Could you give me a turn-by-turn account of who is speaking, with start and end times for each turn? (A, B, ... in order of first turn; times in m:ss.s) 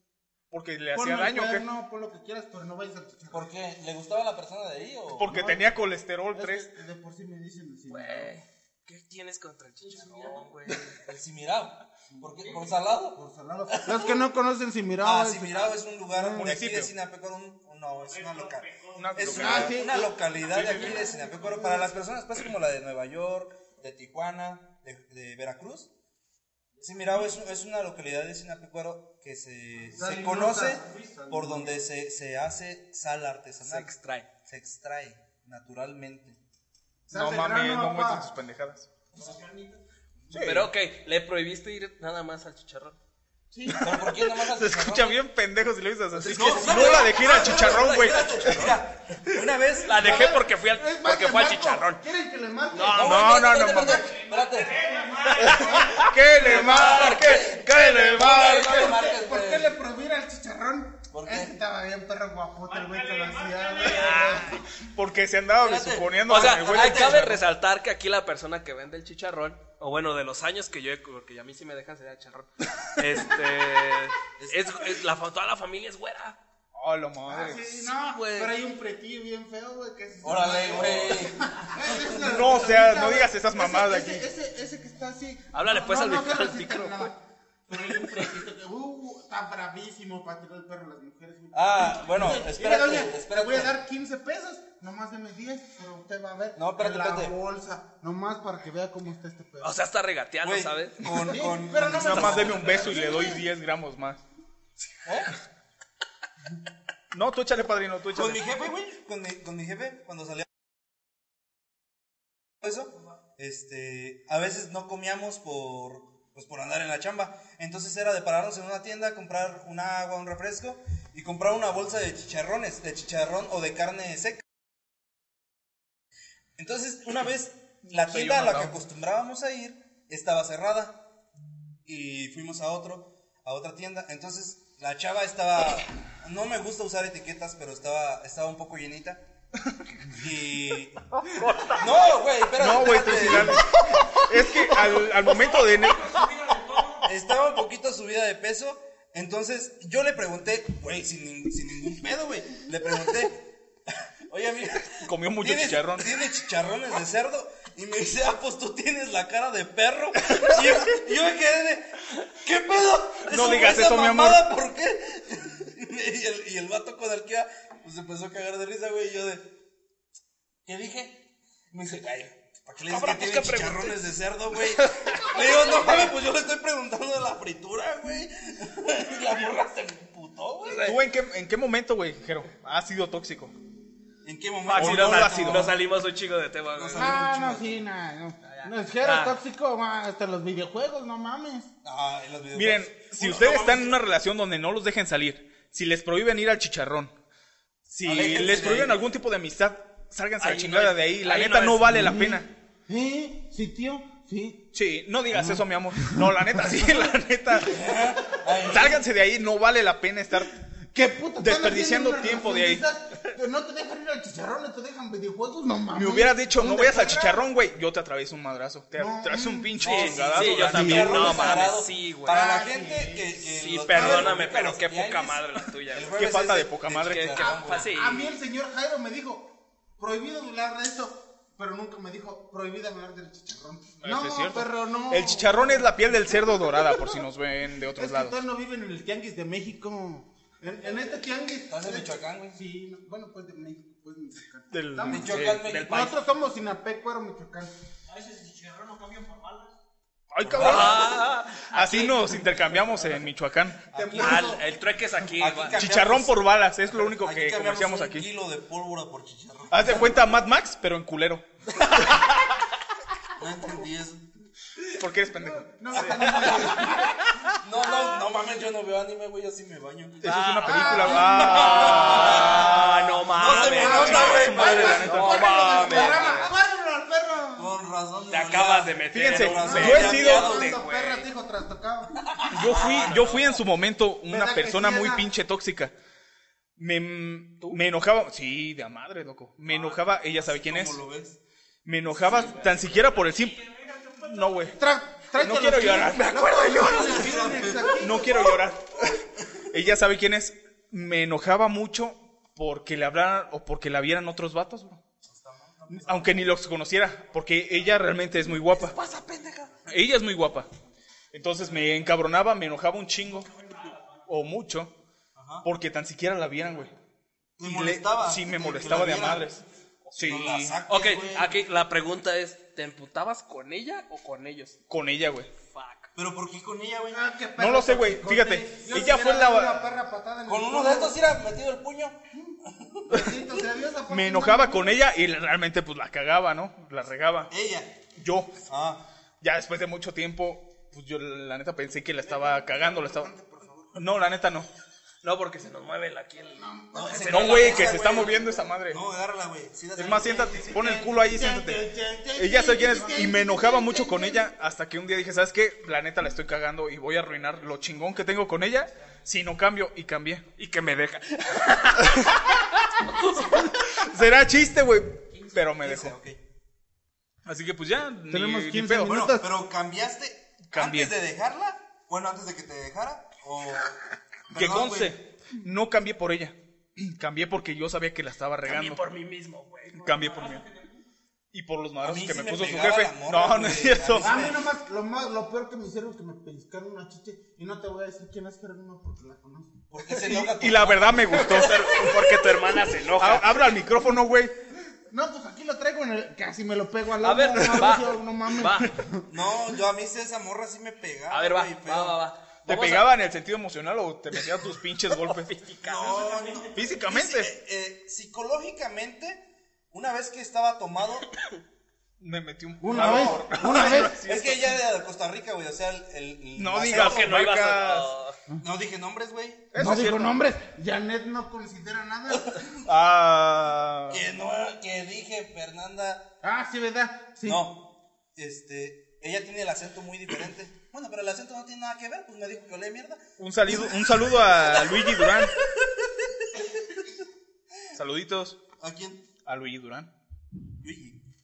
0:00.5-0:01.7 A
0:00.9-0:03.5 B
0:03.3-0:05.3 C
0:05.1-0:06.7 A
0:05.2-0:05.8 B
0:06.3-0:08.3 B
0:07.9-0:10.9 D
0:09.8-0:10.5 E
0:11.0-0:13.2 C
0:12.4-0:12.8 E
0:13.1-0:16.5 B
0:15.0-0:25.9 C
0:16.4-0:16.9 A
0:18.0-0:19.6 E
0:19.0-0:19.8 A
0:19.2-0:20.2 B
0:20.2-0:21.8 E
0:21.4-0:21.8 B
0:26.7-0:27.3 E
0:26.8-0:33.9 C
0:29.9-0:31.1 E
0:30.0-0:31.8 B
0:33.6-0:34.3 D
0:34.4-0:36.4 C
0:37.1-0:38.9 A
0:37.1-0:38.3 B
0:39.1-0:39.8 E
0:40.3-0:40.7 A
0:40.3-0:43.0 D
0:43.5-0:43.9 B
0:43.7-0:48.8 A
0:43.8-0:45.2 C
0:46.1-0:48.1 D
0:46.2-0:50.4 C
0:49.8-0:52.0 D
0:49.9-0:54.1 B
0:52.7-0:53.4 D
0:52.9-0:54.8 C
0:53.0-0:54.1 A
0:54.0-0:56.2 E
0:54.7-1:04.6 B
0:55.4-0:58.9 A
0:55.5-0:57.4 D
0:56.3-0:59.7 C
1:01.1-1:01.6 C
1:02.6-1:04.6 E
1:03.8-1:04.6 D
1:04.8-1:07.4 A
1:05.6-1:07.3 C
1:06.2-1:16.4 D
1:14.4-1:15.0 C
1:16.7-1:17.9 A
1:17.3-1:39.7 B
1:18.0-1:18.5 D
1:20.2-1:22.4 C
1:22.2-1:24.2 A
1:25.5-1:27.1 D
1:31.5-1:33.8 C
1:36.5-1:37.4 C
1:39.6-1:41.1 D
1:40.4-1:42.9 C
1:41.2-1:43.4 B
1:41.9-1:44.2 A
1:45.0-1:45.3 C
1:47.1-1:48.4 A
1:48.1-1:50.5 C
1:52.6-2:04.4 C
2:06.6-2:11.0 C
2:07.8-2:08.8 A
2:11.8-2:19.2 C
2:20.0-2:21.0 C
2:21.7-2:23.7 C
2:22.6-2:26.3 A
2:24.9-2:27.2 E
2:27.0-2:33.5 C
2:34.3-2:49.6 C
2:35.0-2:36.1 A
2:43.3-2:44.5 A
2:50.6-3:01.0 C
2:52.9-2:54.1 D
2:54.7-2:56.1 D
3:00.6-3:01.0 D
3:00.8-3:03.5 A
3:04.2-3:05.8 C
3:04.6-3:07.1 D
3:04.7-3:05.7 A
3:06.7-3:07.8 C
3:07.0-3:11.7 B
3:08.4-3:09.4 D
3:11.8-3:14.0 C
3:12.5-3:17.1 A
3:17.9-3:22.5 A
3:18.0-3:19.0 C
3:20.4-3:22.0 D
3:21.9-3:24.6 B
3:24.7-3:27.8 A
3:25.3-3:27.1 B
3:27.6-3:29.0 C
3:28.7-3:30.6 A
3:30.9-3:37.4 B
3:31.4-3:32.8 A
3:35.9-3:41.7 A
3:39.0-3:39.7 B
3:39.8-3:48.0 C
3:39.8-3:42.4 D
3:40.7-3:41.4 B
3:42.2-3:43.3 B
3:43.5-3:46.2 D
3:43.9-3:44.4 A
3:46.1-3:47.5 A
3:47.0-3:48.3 D
3:47.7-3:57.2 B
3:54.0-3:58.4 A
3:58.0-4:07.7 B
4:01.7-4:02.6 C
4:04.7-4:05.8 A
4:05.0-4:06.1 C
4:05.4-4:06.1 D
4:08.1-4:09.8 E
4:10.3-4:13.8 A
4:10.4-4:11.1 C
4:10.6-4:12.4 D
4:13.9-4:14.6 C
4:13.9-4:14.8 B
4:14.2-4:15.8 D
4:15.3-4:20.3 C
4:15.8-4:18.3 A
4:19.7-4:22.2 A
4:23.4-4:24.3 C
4:24.9-4:26.6 A
4:25.4-4:27.2 B
4:25.9-4:26.5 C
4:27.6-4:30.3 C
4:30.2-4:36.2 A
4:30.2-4:36.5 D
4:30.6-4:32.7 B
4:31.0-4:35.1 C
4:33.5-4:37.7 B
4:35.8-4:36.4 C
4:37.5-4:40.8 C
4:38.3-4:41.3 D
4:39.1-4:40.6 A
4:39.6-4:42.3 B
4:42.3-4:43.6 D
4:42.5-4:45.9 A
4:42.6-4:43.4 C
4:44.3-4:45.2 B
4:46.8-4:51.0 A
4:49.7-4:51.4 C
4:51.8-4:53.6 A
4:53.1-4:54.7 E
4:54.2-4:54.8 A
4:54.8-4:58.5 B
4:55.4-5:05.0 A
4:56.8-4:58.3 C
5:05.2-5:06.5 C
5:05.9-5:09.0 A
5:08.7-5:09.7 D
5:09.9-5:10.7 A
5:11.3-5:13.5 A
5:13.4-5:14.2 E
5:14.3-5:14.9 A
5:15.3-5:15.7 C
5:15.6-5:16.9 A
5:17.6-5:19.5 C
5:17.6-5:19.6 A
5:20.0-5:24.8 D
5:20.1-5:20.8 A
5:20.2-5:21.6 C
5:24.9-5:25.5 A
5:25.6-5:26.1 D
5:26.1-5:27.3 C
5:27.1-5:31.2 B
5:27.6-5:29.9 A
5:30.4-5:33.3 C
5:33.1-5:35.0 B
5:34.1-5:37.5 A
5:37.5-5:38.0 C
5:38.2-5:38.5 A
5:38.6-5:39.0 C
5:39.4-5:43.3 A
5:42.2-5:44.0 B
5:43.9-5:44.7 A
5:45.2-5:48.3 D
5:46.6-5:47.9 B
5:46.9-5:50.7 C
5:47.2-5:49.0 A
5:50.0-6:00.4 A
5:50.3-5:54.4 B
6:00.6-6:03.6 D
6:02.0-6:02.6 A
6:03.3-6:06.2 A
6:05.8-6:06.4 C
6:07.4-6:09.3 A
6:08.3-6:09.5 B
6:09.0-6:14.0 C
6:10.7-6:11.1 A
6:14.5-6:15.2 C
6:14.5-6:19.1 A
6:18.6-6:20.2 D
6:20.0-6:20.6 A
6:20.0-6:21.0 E
6:21.5-6:24.4 A
6:22.0-6:24.7 C
6:24.2-6:29.8 B
6:29.9-6:31.8 C
6:30.2-6:34.6 A
6:31.3-6:33.6 D
6:35.1-6:39.2 B
6:37.2-6:38.9 D
6:39.3-6:42.2 C
6:41.3-6:43.1 D
6:42.6-6:45.6 A
6:45.1-6:46.6 D
6:45.8-6:51.4 C
6:46.7-6:47.5 A
6:52.2-6:54.8 A
6:52.8-6:54.2 B
6:52.9-6:57.4 C
6:56.6-6:58.1 A
6:56.9-6:58.4 D
6:58.6-6:59.8 C
6:59.7-7:00.4 A
6:59.8-7:02.7 B
7:02.8-7:04.2 A
7:04.1-7:06.3 C
7:06.4-7:07.6 B
7:07.4-7:16.7 C
7:13.4-7:15.6 A
7:17.9-7:18.6 A
7:18.8-7:19.3 C
7:19.4-7:20.1 A
7:20.8-7:21.2 C